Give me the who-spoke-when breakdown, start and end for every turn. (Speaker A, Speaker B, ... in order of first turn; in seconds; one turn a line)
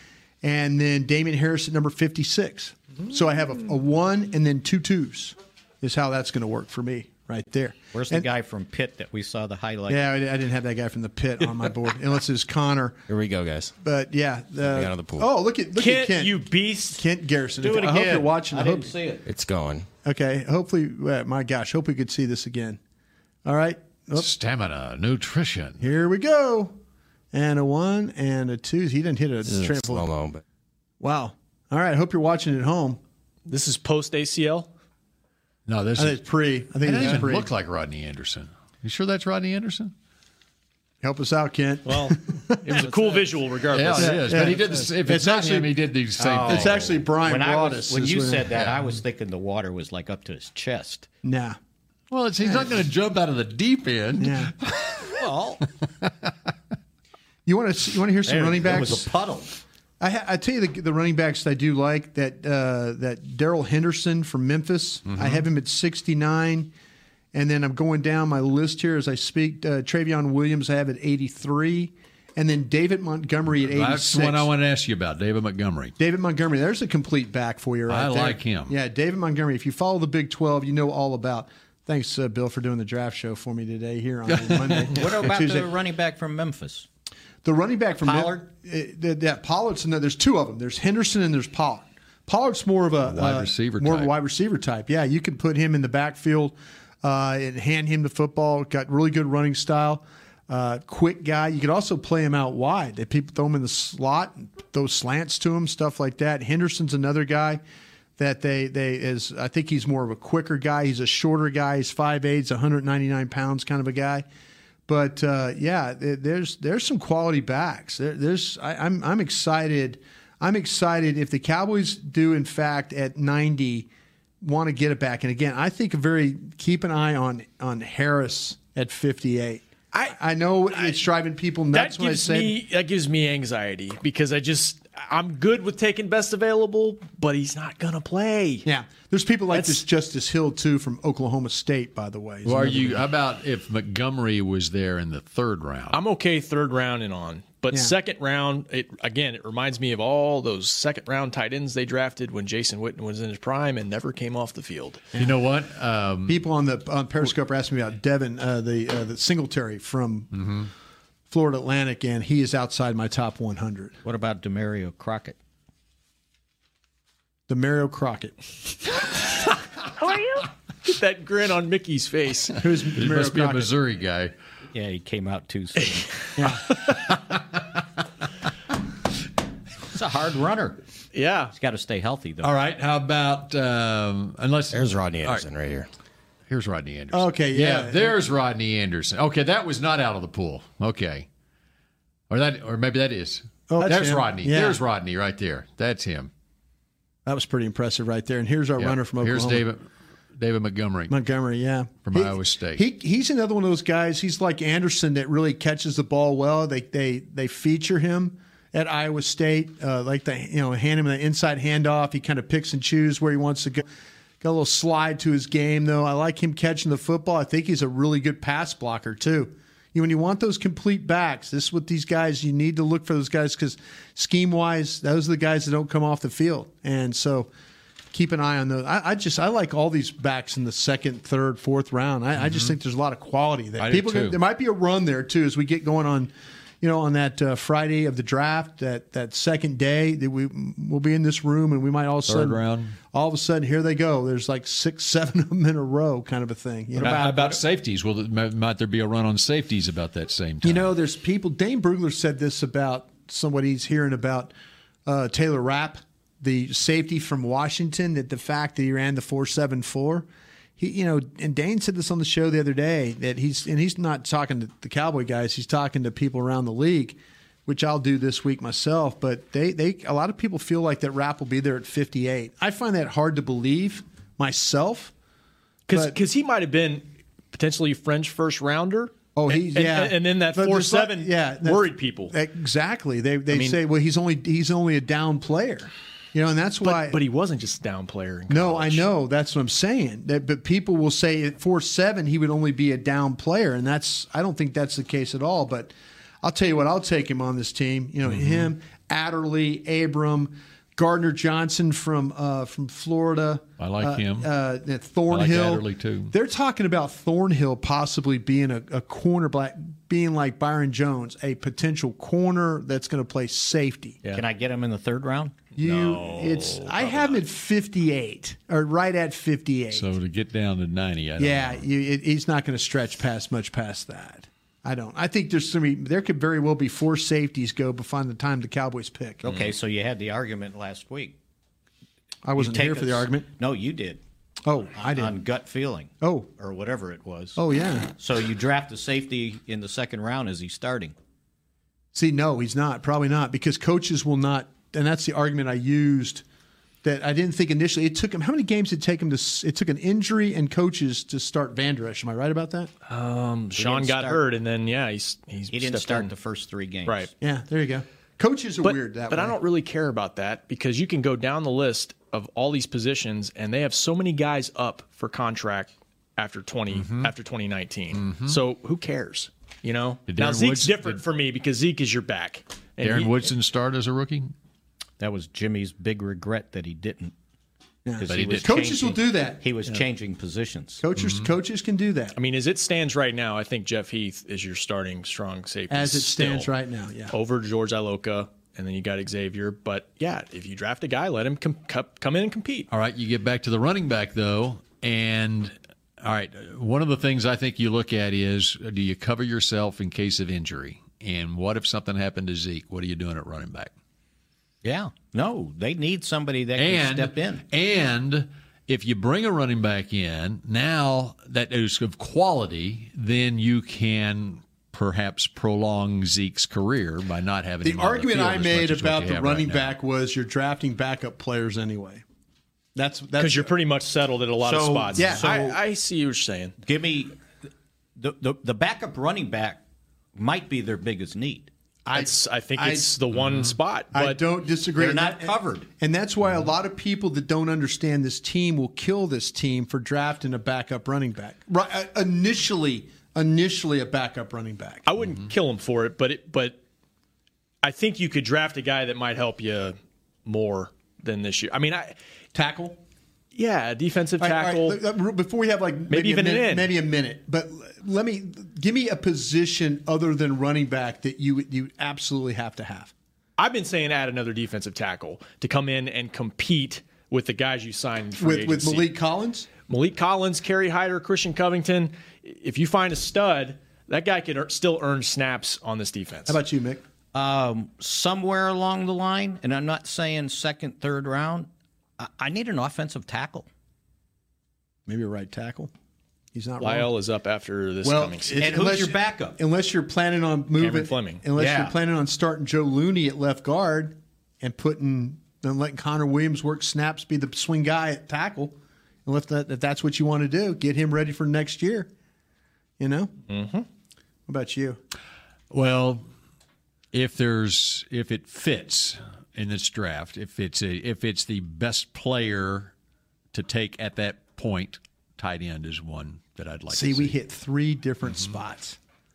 Speaker A: 0.4-8.3
Speaker B: 7.9-10.1
Speaker A: 9.9-13.0
Speaker C: 13.1-13.7
Speaker A: 13.8-18.9
Speaker C: 14.6-15.3
Speaker D: 15.8-17.0
Speaker B: 17.6-19.2
Speaker C: 19.2-19.9
Speaker A: 20.0-22.8
Speaker A: 23.4-24.3
Speaker E: 24.1-25.9
Speaker A: 25.8-26.8
Speaker A: 27.3-30.1
Speaker C: 29.4-30.4
Speaker A: 31.0-33.0
Speaker D: 33.5-34.7
Speaker E: 35.7-36.2
Speaker A: 36.0-37.5
Speaker E: 36.8-39.9
Speaker A: 41.0-42.6
Speaker D: 41.9-44.5
Speaker B: 42.8-43.2
Speaker E: 43.7-46.8
Speaker A: 44.0-48.7
Speaker B: 46.2-51.1
Speaker A: 51.2-51.6
Speaker E: 52.1-55.2
Speaker A: 52.4-52.7
Speaker A: 54.2-54.5
Speaker B: 55.2-55.6
Speaker A: 57.5-59.1
Speaker B: 58.2-59.6
Speaker A: 60.0-66.7
Speaker E: 65.1-65.4
Speaker A: 67.3-74.5
Speaker E: 73.6-75.9
Speaker A: 76.0-85.7
Speaker E: 77.9-78.8
Speaker E: 84.4-84.8
Speaker B: 84.9-86.9
Speaker A: 87.4-107.6
Speaker B: 88.0-88.4
Speaker E: 93.0-94.1
Speaker A: 108.2-114.2
Speaker A: 114.9-123.9
Speaker A: 124.4-132.6
Speaker D: 130.7-131.0
Speaker D: 131.7-138.7
Speaker A: 138.6-143.1
Speaker D: 139.5-139.8
Speaker E: 142.4-146.0
Speaker D: 145.9-155.0
Speaker E: 155.2-156.4
Speaker A: 156.2-160.4
Speaker E: 160.4-160.7
Speaker A: 161.3-164.0
Speaker B: 164.0-165.4
Speaker A: 167.5-168.4
Speaker D: 170.0-172.6
Speaker A: 172.6-173.7
Speaker E: 172.9-174.3
Speaker B: 174.7-176.1
Speaker A: 176.4-176.7
Speaker B: 179.9-180.8
Speaker D: 181.1-181.5
Speaker B: 181.5-182.5
Speaker E: 182.4-185.5
Speaker C: 184.7-185.9
Speaker E: 186.5-191.3
Speaker A: 187.1-188.2
Speaker E: 192.3-196.3
Speaker A: 193.7-194.8
Speaker A: 197.2-199.6
Speaker E: 198.8-201.2
Speaker A: 201.1-213.9
Speaker E: 202.0-202.8
Speaker A: 214.4-227.5
Speaker A: 228.1-247.6
Speaker E: 232.4-232.7
Speaker E: 233.8-234.4
Speaker E: 242.3-243.0
Speaker E: 247.0-250.9
Speaker A: 250.6-254.5
Speaker A: 255.1-260.3
Speaker A: 260.8-275.1
Speaker D: 275.9-282.3
Speaker A: 275.9-276.1
Speaker A: 279.4-287.2
Speaker D: 283.5-283.8
Speaker D: 286.8-289.1
Speaker A: 288.5-314.2
Speaker E: 298.3-298.7
Speaker E: 303.8-304.5
Speaker E: 305.3-306.3
Speaker B: 314.3-315.7
Speaker A: 315.8-320.1
Speaker D: 315.8-317.4
Speaker E: 319.9-321.8
Speaker A: 321.4-329.4
Speaker B: 329.4-331.4
Speaker A: 332.4-333.5
Speaker B: 332.6-334.2
Speaker A: 334.6-335.4
Speaker B: 335.1-337.6
Speaker A: 336.2-336.5
Speaker A: 337.6-338.1
Speaker B: 338.1-341.1
Speaker A: 342.1-346.4
Speaker A: 347.0-352.9
Speaker D: 353.1-356.3
Speaker B: 353.8-354.4
Speaker B: 355.7-357.3
Speaker A: 357.4-359.6
Speaker D: 358.8-373.5
Speaker E: 366.9-367.3
Speaker E: 368.1-368.6
Speaker E: 370.3-371.2
Speaker E: 373.0-374.5
Speaker B: 375.2-377.3
Speaker A: 378.0-380.0
Speaker B: 378.2-381.0
Speaker E: 378.3-378.7
Speaker A: 381.0-382.4
Speaker E: 381.2-381.5
Speaker D: 382.4-386.7
Speaker A: 385.9-387.3
Speaker D: 387.3-392.9
Speaker E: 392.9-403.9
Speaker B: 404.8-407.6
Speaker E: 406.8-419.9
Speaker A: 417.8-422.2
Speaker A: 422.9-423.7
Speaker D: 423.4-426.8
Speaker B: 424.6-425.8
Speaker A: 425.1-425.6
Speaker B: 426.8-427.3
Speaker B: 428.2-429.8
Speaker B: 430.3-431.7
Speaker A: 432.1-433.2
Speaker D: 432.1-434.4
Speaker A: 434.1-445.0
Speaker B: 434.9-435.9
Speaker D: 445.1-446.8
Speaker D: 447.8-452.1
Speaker A: 452.5-453.0
Speaker D: 453.5-455.0
Speaker A: 454.4-463.1
Speaker D: 456.1-456.9
Speaker D: 463.6-469.1
Speaker A: 468.4-469.7
Speaker D: 469.9-476.6
Speaker A: 476.5-477.0
Speaker B: 477.3-483.7
Speaker A: 485.1-485.9
Speaker A: 486.5-487.1
Speaker D: 486.8-488.6
Speaker A: 488.0-502.1
Speaker B: 488.6-489.6
Speaker D: 490.8-491.4
Speaker B: 491.6-491.9
Speaker A: 503.0-503.3
Speaker D: 503.5-503.8
Speaker A: 504.5-505.0
Speaker E: 505.7-506.2
Speaker E: 507.1-512.9
Speaker E: 513.5-517.3
Speaker A: 516.9-519.0